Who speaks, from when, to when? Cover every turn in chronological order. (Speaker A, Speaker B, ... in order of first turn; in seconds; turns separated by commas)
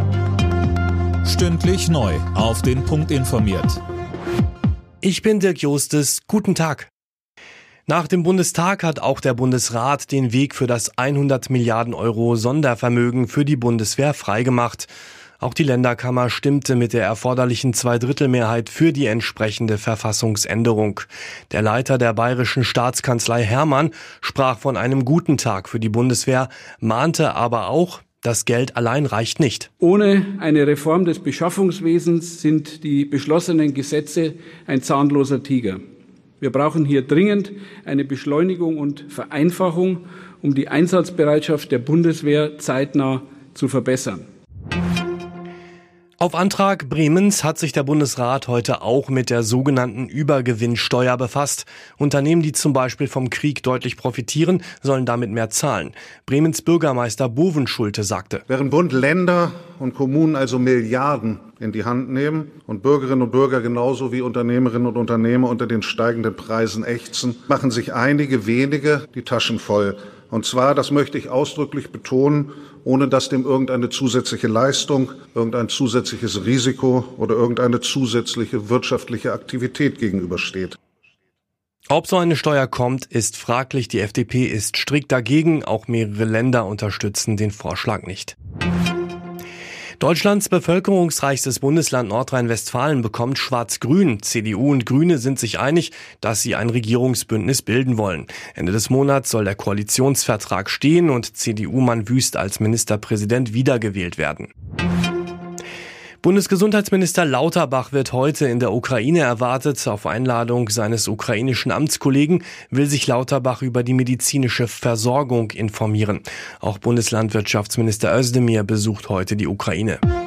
Speaker A: 1.2-3.8, Speaker B: 5.0-6.9, Speaker B: 7.9-29.7, Speaker C: 29.8-35.8, Speaker C: 36.4-44.3, Speaker B: 46.2-58.4, Speaker D: 58.5-80.8, Speaker B: 81.9-88.4, Speaker B: 90.0-104.5, Speaker B: 106.2-120.0